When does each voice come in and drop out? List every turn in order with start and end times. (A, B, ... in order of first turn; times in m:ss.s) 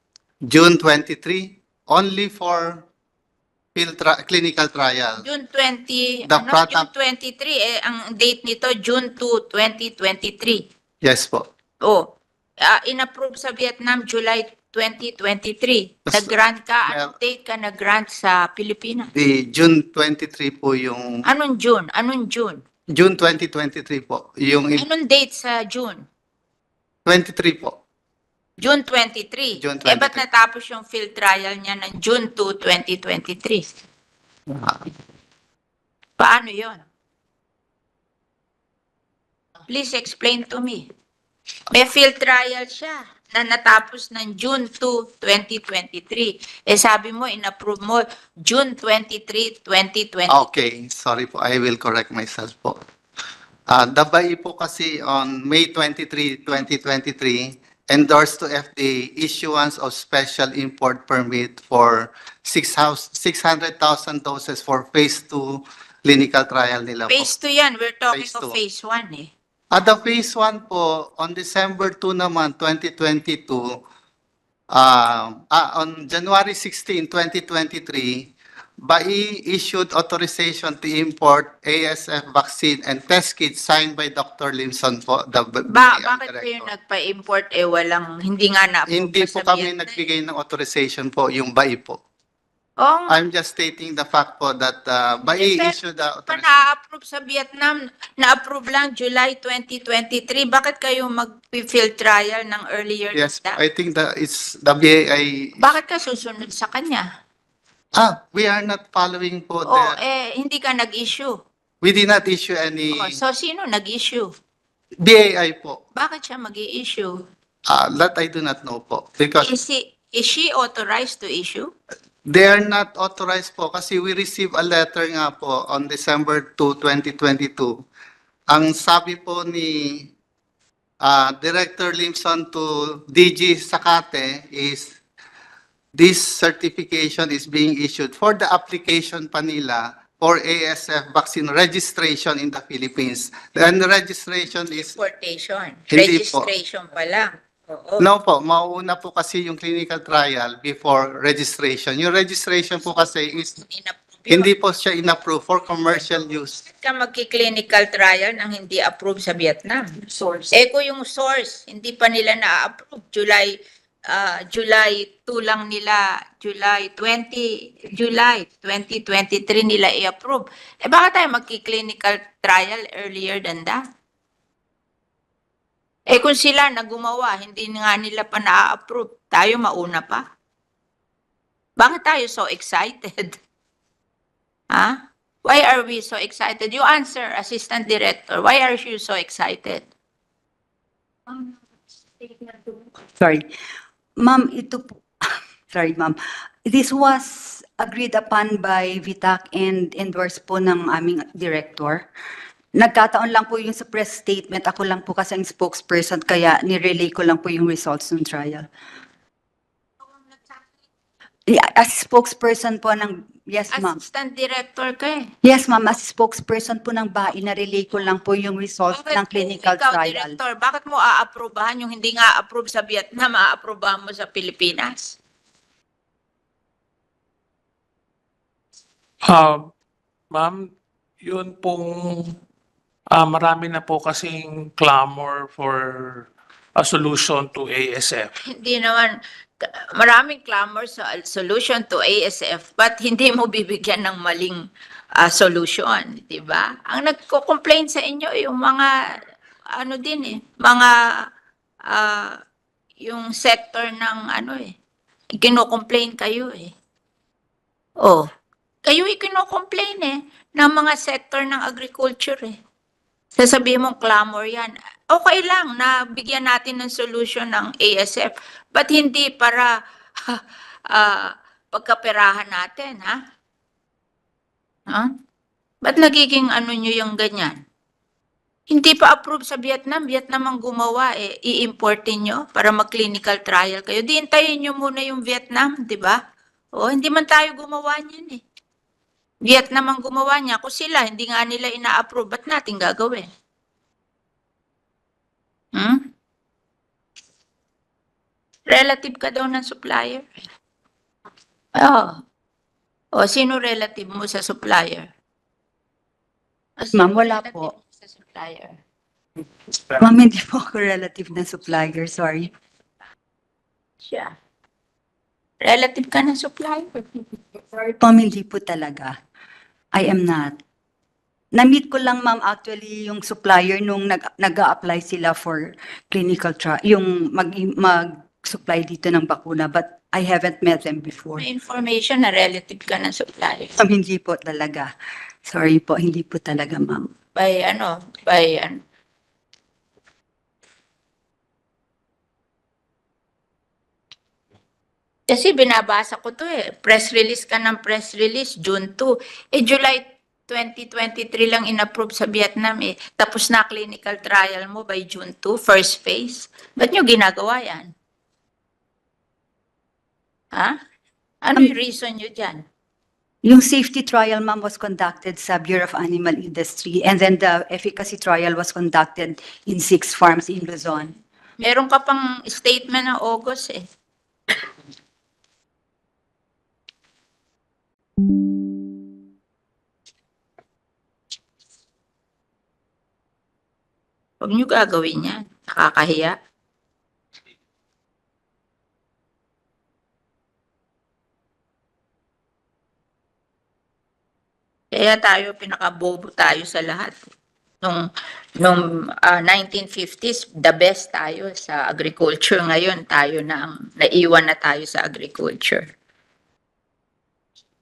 0:00.5-0:02.8 A
0:03.8-0:05.2 A
0:05.2-0:10.6 B
0:06.3-0:06.9 A
0:11.0-0:11.5 A
0:12.6-0:19.1 B
0:16.8-0:17.1 A
0:19.1-0:21.2 A
0:21.2-0:22.6 B
0:22.9-0:24.8 A
0:24.8-0:26.0 B
0:27.1-0:27.8 A
0:28.6-0:33.6 B
0:29.6-0:30.2 A
0:36.2-0:36.8 B
0:39.7-0:40.9 B
0:41.7-0:50.4 B
0:50.3-0:52.8 A
0:53.7-1:07.3 A
1:07.1-1:09.3 B
1:08.1-1:08.6 A
1:09.7-1:13.7 A
1:14.7-1:18.3 A
1:18.8-1:26.7 A
1:25.7-1:30.1 B
1:28.9-1:32.0 A
1:32.8-1:33.2 B
1:33.1-1:36.6 A
1:35.3-1:35.8 B
1:36.3-1:43.6 B
1:43.1-1:45.6 A
1:45.6-1:47.1 B
1:48.0-1:50.0 A
1:49.7-1:51.4 B
1:51.8-1:53.2 A
1:52.9-1:54.3 B
1:55.0-1:55.8 A
1:56.0-1:57.2 B
1:57.7-1:59.5 A
1:59.4-2:01.7 B
2:02.3-2:07.7 A
2:08.5-2:10.1 A
2:11.0-2:14.9 A
2:16.0-2:25.0 A
2:24.8-2:28.1 B
2:25.9-2:26.5 A
2:28.0-2:33.6 A
2:33.0-2:34.5 B
2:34.3-2:36.6 A
2:36.6-2:39.9 B
2:40.2-2:40.5 C
2:40.5-2:43.6 B
2:44.1-2:53.8 B
2:56.1-3:00.2 B
3:01.8-3:03.4 B
3:04.7-3:09.9 B
3:13.2-3:13.4 C
3:14.2-3:22.1 C
3:22.8-3:28.7 C
3:30.3-3:30.6 B
3:31.5-3:34.0 C
3:33.7-3:35.3 B
3:35.4-3:40.4 C
3:38.9-3:45.2 B
3:49.3-3:49.6 D
3:50.3-3:50.7 D
3:51.2-3:52.4 D
3:53.2-3:58.3 D
3:58.4-4:04.6 B
4:05.2-4:08.9 B
4:09.8-4:10.9 B
4:11.9-4:12.4 B
4:13.0-4:14.7 B
4:15.4-4:16.7 B
4:18.9-4:22.6 B
4:23.4-4:29.7 B
4:30.3-4:33.2 B
4:35.8-4:37.6 B
4:38.7-4:46.2 B
4:46.8-4:48.4 B
4:49.5-4:53.3 B
4:55.8-4:56.0 B
4:58.7-5:00.3 B
5:01.8-5:02.2 B
5:03.1-5:05.1 B
5:06.8-5:08.8 B
5:06.9-5:07.7 C
5:10.0-5:12.5 C
5:14.0-5:14.4 B
5:15.6-5:17.0 B
5:17.8-5:19.1 C
5:19.9-5:20.6 C
5:21.6-5:31.5 C
5:31.4-5:33.8 B
5:33.8-5:34.9 C
5:35.5-5:37.1 C
5:37.4-5:38.8 B
5:45.3-5:57.9 B
6:01.4-6:02.6 B
6:03.5-6:11.2 C
6:11.6-6:13.8 B
6:24.4-6:26.4 B
6:34.9-6:37.1 B
6:38.6-6:45.9 B